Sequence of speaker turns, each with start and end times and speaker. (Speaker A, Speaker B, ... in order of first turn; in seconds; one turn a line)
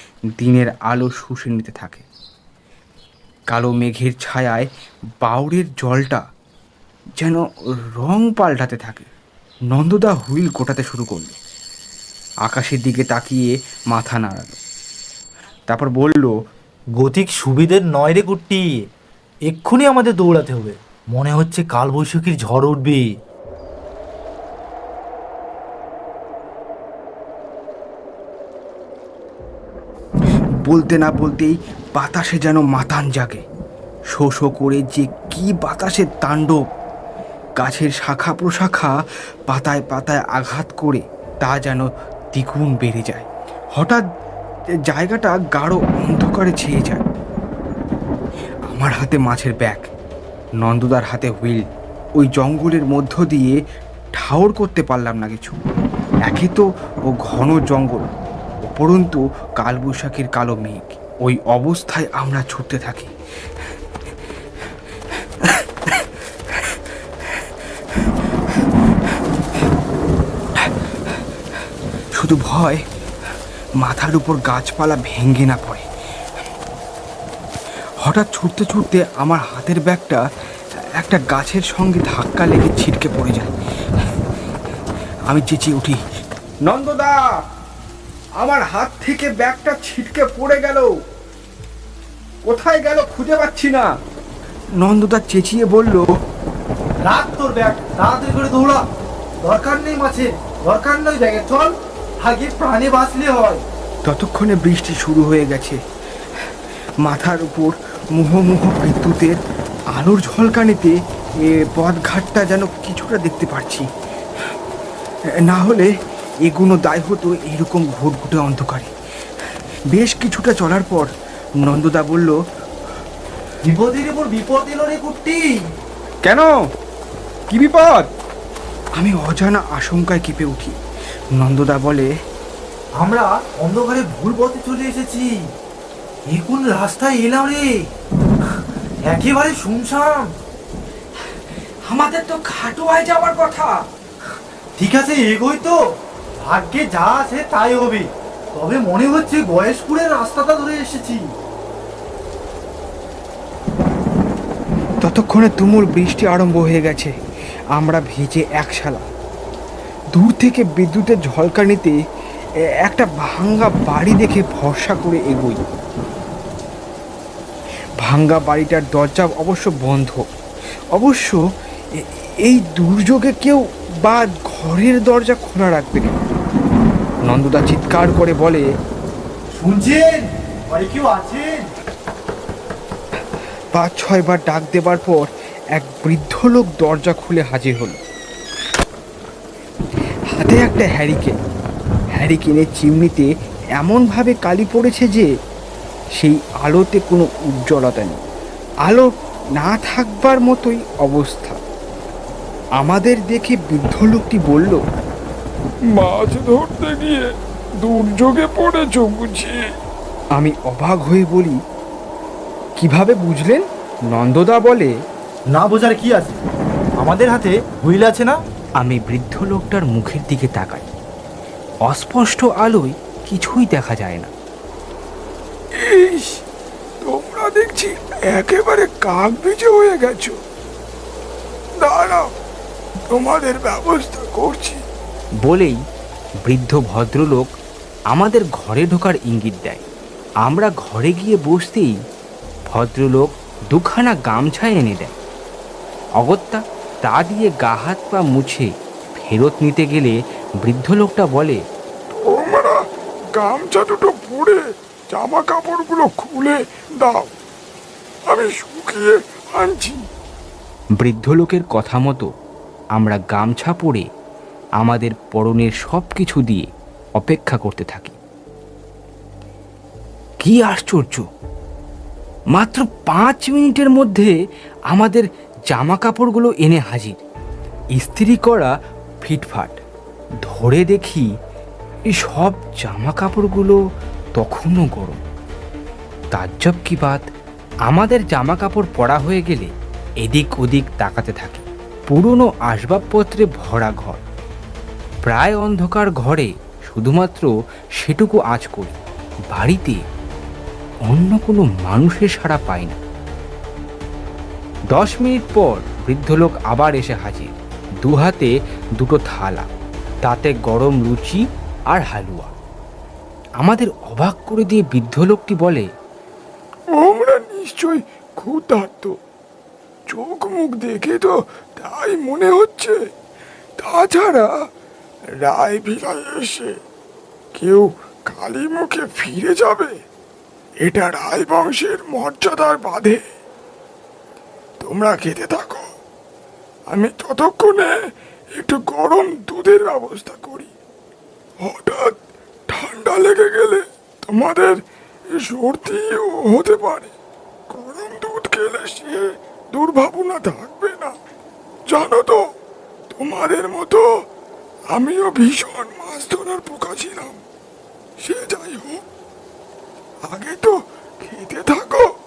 Speaker A: 0.3-2.0
Speaker A: 3.5-4.7
Speaker A: 5.2-6.2
Speaker A: 8.0-9.1
Speaker A: 9.7-11.4
Speaker A: 12.5-14.6
Speaker A: 15.7-16.3
Speaker B: 17.0-18.7
Speaker B: 19.5-23.1
Speaker A: 30.6-33.4
Speaker A: 34.1-36.6
Speaker A: 37.6-38.9
Speaker A: 39.5-44.0
Speaker A: 44.9-47.0
Speaker A: 48.7-49.9
Speaker A: 50.6-51.7
Speaker A: 52.2-53.6
Speaker A: 54.2-55.6
Speaker A: 56.3-58.1
Speaker A: 58.6-63.1
Speaker A: 65.4-66.0
Speaker A: 72.1-72.8
Speaker A: 73.8-75.9
Speaker A: 78.0-80.2
Speaker A: 81.0-84.2
Speaker A: 85.3-86.0
Speaker A: 86.6-87.3
Speaker A: 88.4-90.9
Speaker A: 92.4-93.9
Speaker A: 94.8-96.1
Speaker B: 97.0-98.8
Speaker B: 99.4-103.6
Speaker A: 104.0-105.8
Speaker A: 107.0-109.4
Speaker A: 109.9-113.9
Speaker A: 115.4-115.9
Speaker A: 116.4-118.9
Speaker A: 119.9-122.3
Speaker B: 123.6-125.6
Speaker A: 126.2-126.5
Speaker A: 127.5-128.1
Speaker A: 129.0-130.8
Speaker A: 131.3-132.1
Speaker B: 133.0-135.3
Speaker B: 136.3-137.7
Speaker B: 139.1-140.3
Speaker A: 141.8-143.8
Speaker B: 144.8-145.8
Speaker B: 146.4-151.2
Speaker A: 155.0-157.1
Speaker A: 157.8-159.1
Speaker A: 160.1-162.0
Speaker A: 162.8-165.6
Speaker A: 168.0-170.2
Speaker A: 170.9-171.4
Speaker A: 172.0-176.2
Speaker A: 177.3-178.7
Speaker B: 179.6-181.7
Speaker A: 183.7-188.0
Speaker A: 190.3-191.3
Speaker A: 192.1-195.3
Speaker A: 196.2-198.2
Speaker A: 198.8-201.6
Speaker A: 202.8-204.8
Speaker C: 205.9-207.3
Speaker C: 207.8-209.7
Speaker A: 210.3-211.6
Speaker A: 212.8-214.9
Speaker B: 215.5-216.4
Speaker B: 217.0-218.4
Speaker A: 218.8-220.8
Speaker A: 221.8-224.3
Speaker C: 225.8-226.4
Speaker C: 227.0-230.4
Speaker C: 231.8-232.3
Speaker C: 233.1-234.8
Speaker A: 235.4-235.8
Speaker A: 236.4-237.5
Speaker A: 238.1-239.8
Speaker A: 240.4-241.9
Speaker A: 242.7-245.1
Speaker A: 246.2-251.6
Speaker C: 252.1-252.8
Speaker C: 253.3-257.3
Speaker C: 258.3-260.0
Speaker A: 261.0-262.3
Speaker A: 263.0-264.1
Speaker A: 264.8-266.6
Speaker A: 267.2-268.1
Speaker A: 270.4-271.3
Speaker A: 272.5-274.3
Speaker A: 274.9-277.2
Speaker A: 277.9-278.7
Speaker A: 279.2-279.8
Speaker A: 280.4-281.3
Speaker A: 282.1-283.8
Speaker A: 284.4-285.2
Speaker A: 286.3-287.2
Speaker A: 287.9-294.2
Speaker A: 295.3-299.0
Speaker A: 299.5-300.0
Speaker A: 301.1-303.0
Speaker A: 304.9-309.7
Speaker A: 310.2-312.5
Speaker A: 313.6-315.9
Speaker C: 316.9-319.1
Speaker C: 320.1-323.0
Speaker C: 323.8-324.5
Speaker C: 325.4-326.8
Speaker C: 327.6-329.9
Speaker C: 330.8-333.2
Speaker C: 334.8-335.9
Speaker C: 336.9-337.9
Speaker C: 338.5-340.7
Speaker C: 341.6-342.1
Speaker C: 342.7-344.8
Speaker C: 345.3-347.1
Speaker C: 347.7-351.1
Speaker C: 351.9-352.5
Speaker C: 353.1-354.1
Speaker C: 354.9-357.4
Speaker C: 358.2-359.0
Speaker C: 360.2-362.1